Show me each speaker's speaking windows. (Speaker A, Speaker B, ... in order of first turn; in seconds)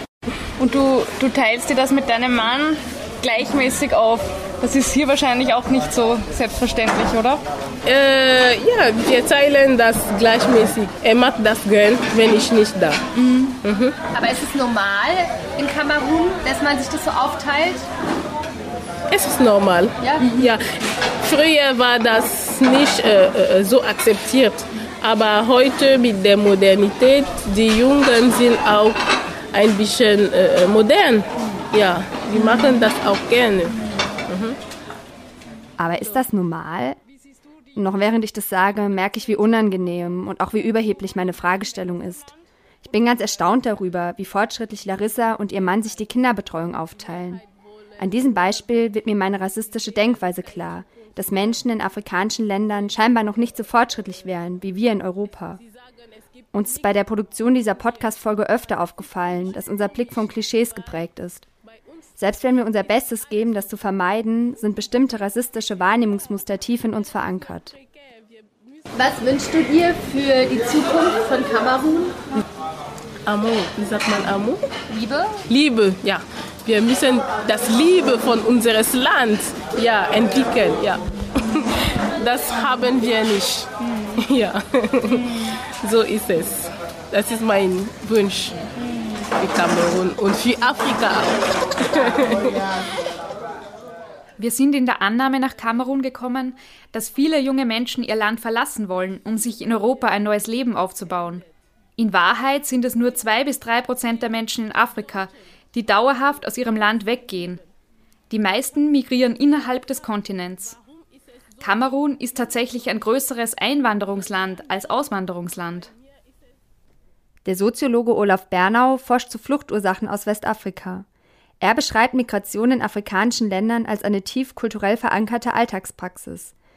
Speaker A: 0.6-7.4, 13.1-13.6
Speaker B: 7.8-13.0, 13.6-13.9, 19.1-20.6, 21.2-29.0, 29.5-33.7, 34.3-34.6, 73.2-74.6, 75.5-85.3, 85.8-88.6, 89.4-92.7
Speaker C: 14.1-17.9, 20.0-20.4, 68.9-72.2, 74.9-75.3
Speaker D: 35.8-37.0, 37.7-42.3, 42.8-47.4, 48.0-55.6, 56.5-61.5, 62.2-67.8, 117.4-121.0, 121.6-126.5
Speaker E: 94.4-101.4, 102.0-107.6, 108.3-110.8, 111.6-115.9